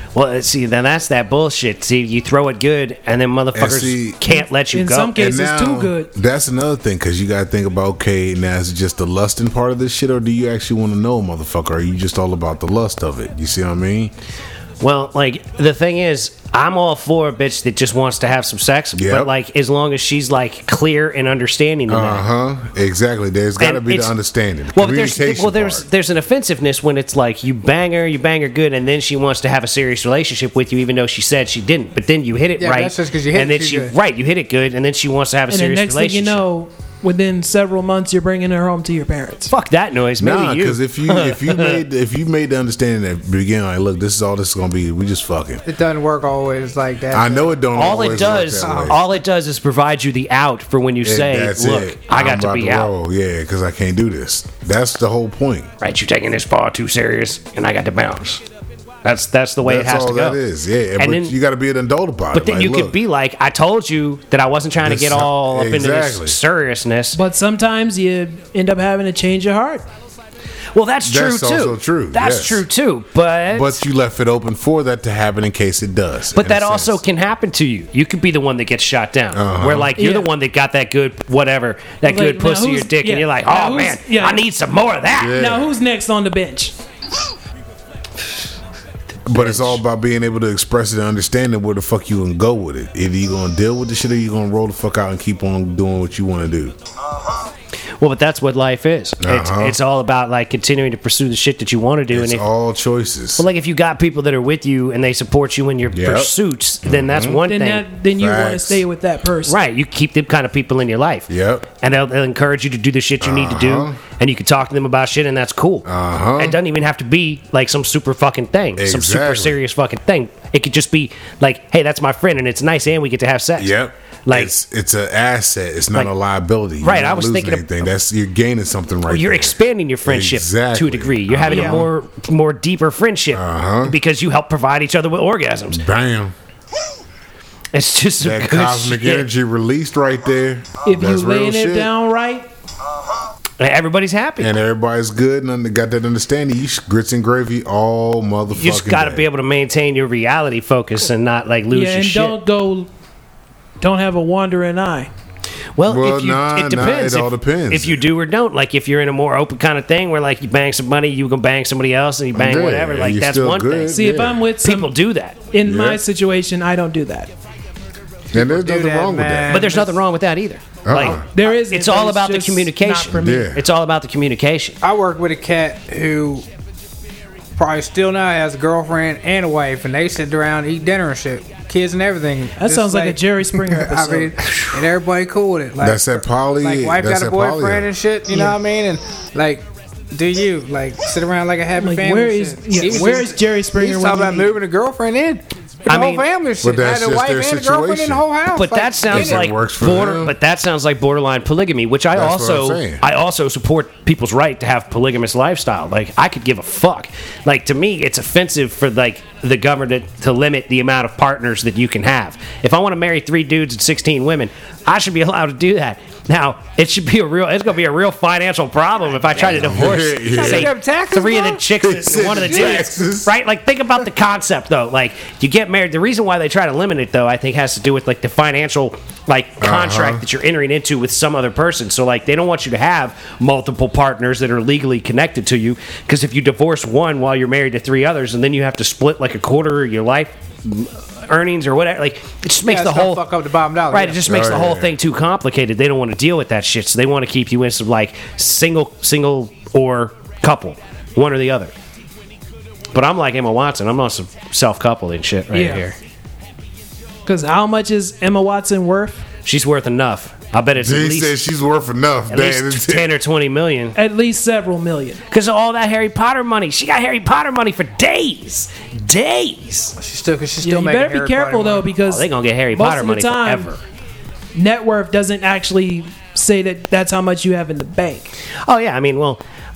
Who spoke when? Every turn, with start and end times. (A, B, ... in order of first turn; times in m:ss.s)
0:00.2-0:05.2 A
0:03.5-0:04.2 B
0:04.3-0:06.1 C
0:05.1-0:14.1 B
0:14.8-0:22.3 A
0:18.9-0:19.3 B
0:21.9-0:25.9 B
0:23.6-0:24.1 A
0:24.7-0:36.4 A
0:32.6-0:33.9 D
0:35.5-0:39.5 C
0:39.5-0:41.8 A
0:40.2-0:45.6 B
0:45.7-0:49.0 D
0:47.1-0:49.0 B
0:47.7-0:52.9 A
0:51.0-0:55.7 B
0:55.8-0:58.4 A
0:59.0-1:00.4 A
0:59.6-1:03.0 B
1:01.0-1:01.3 A
1:02.3-1:07.2 A
1:04.8-1:06.4 B
1:07.2-1:09.8 C
1:10.7-1:13.8 A
1:11.0-1:12.7 B
1:13.5-1:17.0 B
1:16.4-1:25.4 A
1:19.3-1:19.9 B
1:20.0-1:20.3 C
1:22.0-1:24.4 C
1:25.1-1:25.7 B
1:25.3-1:26.7 C
1:29.3-1:36.8 B
1:29.3-1:29.8 A
1:38.0-1:42.4 A
1:39.2-1:39.8 B
1:42.1-1:43.5 B
1:43.4-1:47.8 A
1:45.9-1:47.4 B
1:47.5-1:49.6 C
1:48.2-1:48.8 B
1:49.5-1:55.9 A
1:51.3-1:51.7 B
1:53.2-1:54.0 B
1:55.8-1:56.6 B
1:56.4-2:03.8 A
1:58.8-1:59.6 B
2:03.6-2:11.9 B
2:04.3-2:04.5 A
2:06.8-2:07.7 A
2:09.1-2:15.8 A
2:11.5-2:11.8 D
2:13.3-2:14.0 B
2:15.7-2:16.3 B
2:17.7-2:19.3 A
2:18.2-2:21.9 B
2:20.8-2:22.5 C
2:23.6-2:24.6 A
2:24.4-2:29.3 B
2:28.5-2:32.4 A
2:31.7-2:32.9 C
2:33.8-2:35.1 C
2:35.8-2:45.4 A
2:35.9-2:38.1 B
2:42.3-2:44.4 B
2:43.9-2:45.0 C
2:45.5-2:47.3 C
2:45.6-2:46.0 B
2:48.3-2:49.7 B
2:48.3-2:50.0 D
2:49.5-2:54.8 A
2:50.8-2:51.3 B
2:51.0-2:53.5 C
2:53.1-2:53.6 B
2:54.8-2:56.4 D
2:57.6-3:19.5 D
3:02.6-3:04.4 C
3:05.8-3:07.9 B
3:11.8-3:14.6 C
3:15.9-3:16.3 A
3:16.6-3:18.2 B
3:18.5-4:03.3 A
3:19.1-3:20.4 B
3:22.1-3:23.0 B
3:39.4-3:40.7 B
3:39.9-3:42.9 D
3:41.8-3:43.3 B
3:49.6-3:50.2 B
4:02.7-4:04.4 D
4:03.9-4:11.7 A
4:04.2-4:04.9 B
4:12.9-4:16.0 A
4:15.5-4:15.8 C
4:17.3-4:19.2 C
4:19.4-4:21.4 A
4:20.8-4:23.1 B
4:22.3-4:24.0 A
4:24.0-4:25.2 C
4:25.3-4:30.0 A
4:30.0-4:31.9 D
4:30.6-4:33.7 C
4:32.1-4:33.8 A
4:34.6-4:38.3 C
4:38.6-4:39.4 A